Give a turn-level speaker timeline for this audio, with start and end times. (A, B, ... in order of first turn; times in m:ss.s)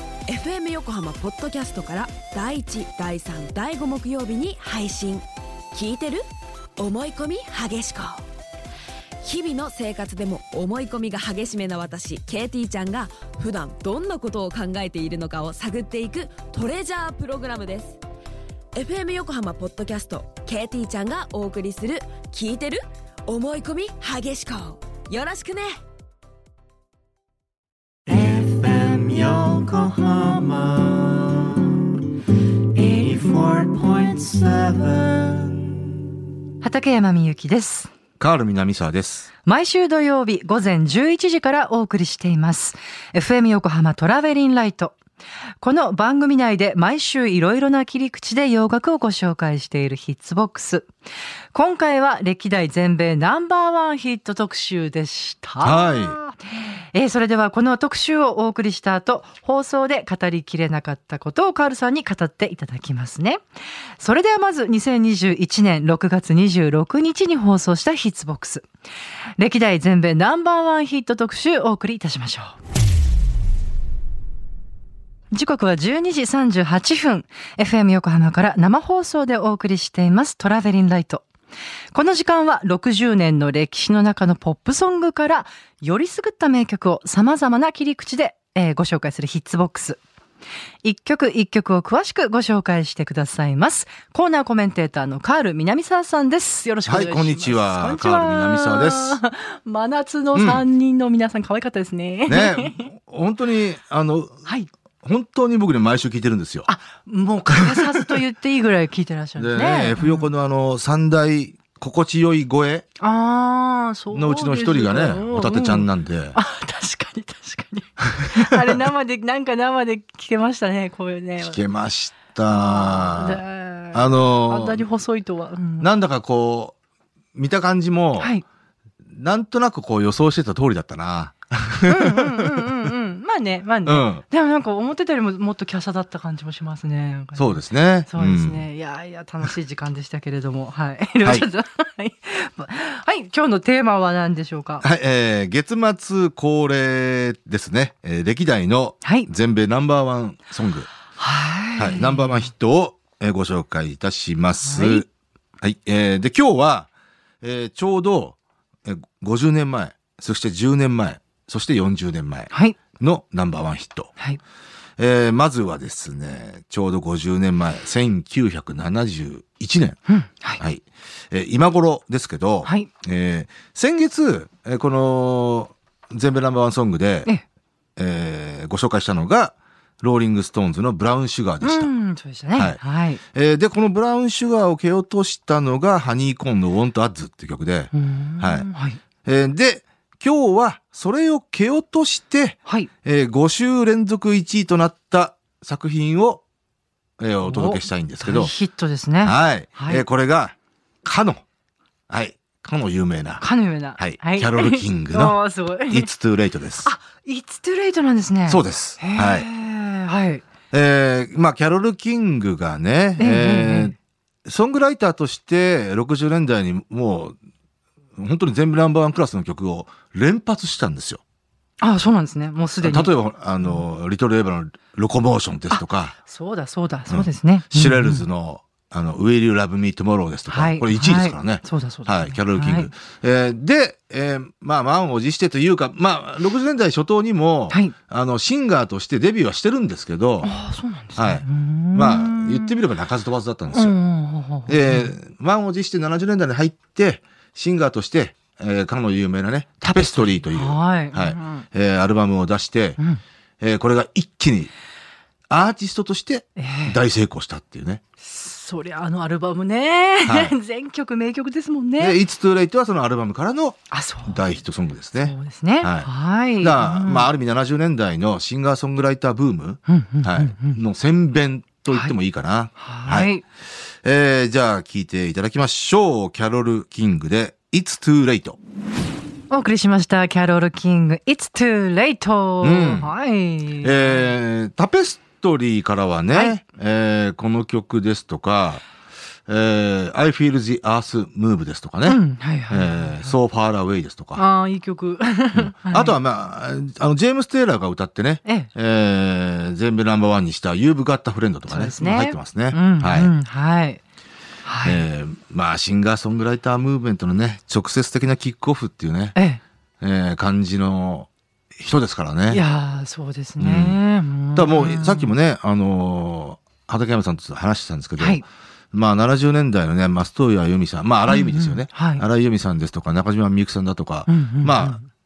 0:00.3-0:06.2 A
0:06.8-0:08.2 A
0:09.2-0:18.0 A
0:18.8-0:25.8 A
0:28.1-0:31.8 B
0:32.7-0:35.8 B
0:36.6-0:37.9 C
0:38.2-0:39.3 D
0:39.4-0:45.0 C
0:45.6-0:50.9 C
0:51.5-1:03.4 C
0:55.6-0:56.2 D
1:04.0-1:08.7 C
1:09.4-1:12.6 C
1:15.3-1:21.3 C
1:21.9-1:30.0 C
1:30.8-1:42.9 C
1:36.9-1:39.2 D
1:40.4-1:40.6 D
1:42.3-1:44.5 D
1:45.0-1:46.7 D
1:46.7-1:50.3 C
1:47.5-1:48.1 D
1:49.4-1:52.9 D
1:53.0-2:01.6 C
1:54.1-1:56.4 D
1:58.4-1:58.8 D
2:01.4-2:03.4 D
2:02.5-2:05.9 C
2:03.9-2:04.8 D
2:05.8-2:06.8 D
2:07.4-2:08.3 D
2:08.2-2:08.4 C
2:09.1-2:12.9 D
2:11.9-2:17.6 C
2:13.8-2:14.2 D
2:17.4-2:18.7 D
2:18.1-2:24.8 C
2:24.8-2:30.9 D
2:29.0-2:29.3 C
2:31.2-2:32.3 C
2:31.8-2:35.1 D
2:34.6-2:35.0 C
2:35.6-2:36.9 D
2:37.4-2:44.1 D
2:42.5-2:42.8 C
2:45.0-2:50.0 D
2:50.1-2:50.6 C
2:50.6-2:57.3 D
2:52.6-2:52.9 C
2:58.0-3:01.9 D
3:01.6-3:03.2 C
3:03.3-3:08.7 D
3:07.9-3:09.0 C
3:09.2-3:16.4 D
3:17.2-3:18.5 D
3:17.4-3:20.0 C
3:19.2-3:21.4 D
3:22.1-3:23.4 D
3:23.4-3:26.1 C
3:24.0-3:26.9 D
3:26.8-3:30.4 C
3:28.5-3:29.5 D
3:30.7-3:37.4 D
3:33.2-3:34.0 C
3:38.2-3:41.2 D
3:41.8-3:43.1 C
3:42.8-3:46.2 D
3:45.7-3:48.2 C
3:47.1-4:00.5 D
3:50.5-3:52.9 C
3:57.7-3:58.0 C
4:00.4-4:02.8 C
4:01.2-4:04.0 D
4:03.7-4:05.1 C
4:04.7-4:13.0 D
4:09.9-4:11.6 C
4:13.6-4:14.7 D
4:15.5-4:18.0 D
4:16.6-4:17.0 C
4:18.2-4:22.2 C
4:20.3-4:20.5 D
4:22.0-4:33.3 D
4:23.9-4:24.4 C
4:25.2-4:27.3 C
4:29.9-4:30.8 C
4:32.8-4:33.4 C
4:34.0-4:38.6 D
4:39.5-4:44.3 C
4:42.6-4:43.1 D
4:43.8-4:48.8 D
4:49.5-4:54.4 D
4:52.1-4:53.3 C
4:54.4-4:56.2 C
4:55.5-5:03.3 D
5:01.7-5:04.0 C
5:04.6-5:05.0 C
5:04.8-5:09.4 D
5:09.4-5:09.6 C
5:10.0-5:12.6 D
5:12.5-5:15.3 C
5:13.6-5:14.0 D
5:14.5-5:25.0 D
5:18.2-5:18.4 C
5:21.3-5:22.2 C
5:24.3-5:25.0 C